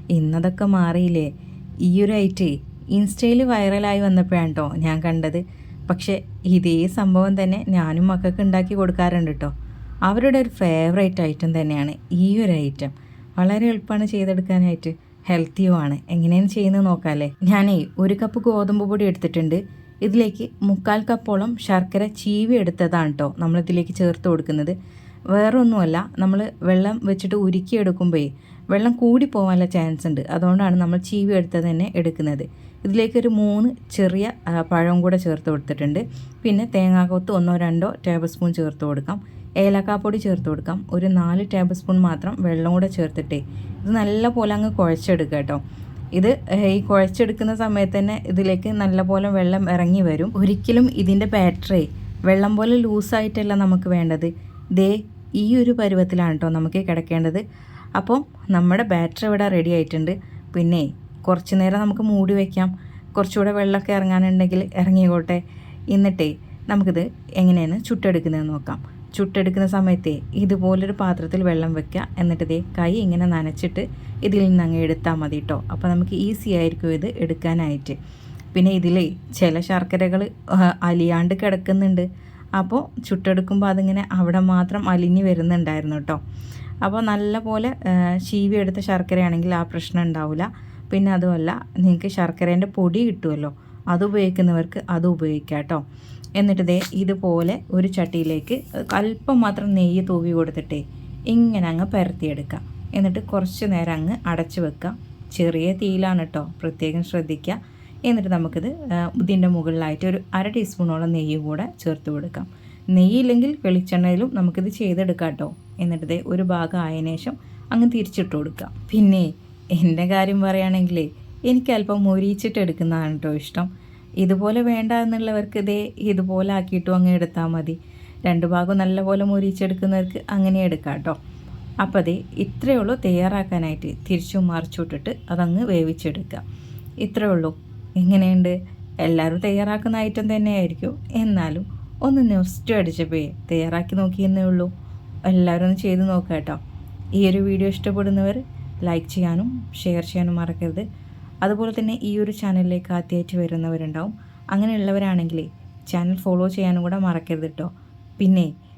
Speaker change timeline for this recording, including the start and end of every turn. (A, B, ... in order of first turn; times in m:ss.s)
0:00.1-0:01.3 A
0:01.8-0:09.5 A
0:10.1-0:24.8 A
0:25.3-0:45.6 A
0:46.1-0:57.4 A
0:58.0-1:18.0 A
1:18.5-1:26.2 A
1:26.8-1:35.8 A
1:36.4-2:03.7 A
2:04.2-2:11.2 A
2:11.8-2:16.4 A
2:17.0-2:24.7 A
2:25.3-2:26.6 A
2:27.2-2:30.8 A
2:31.4-2:38.5 A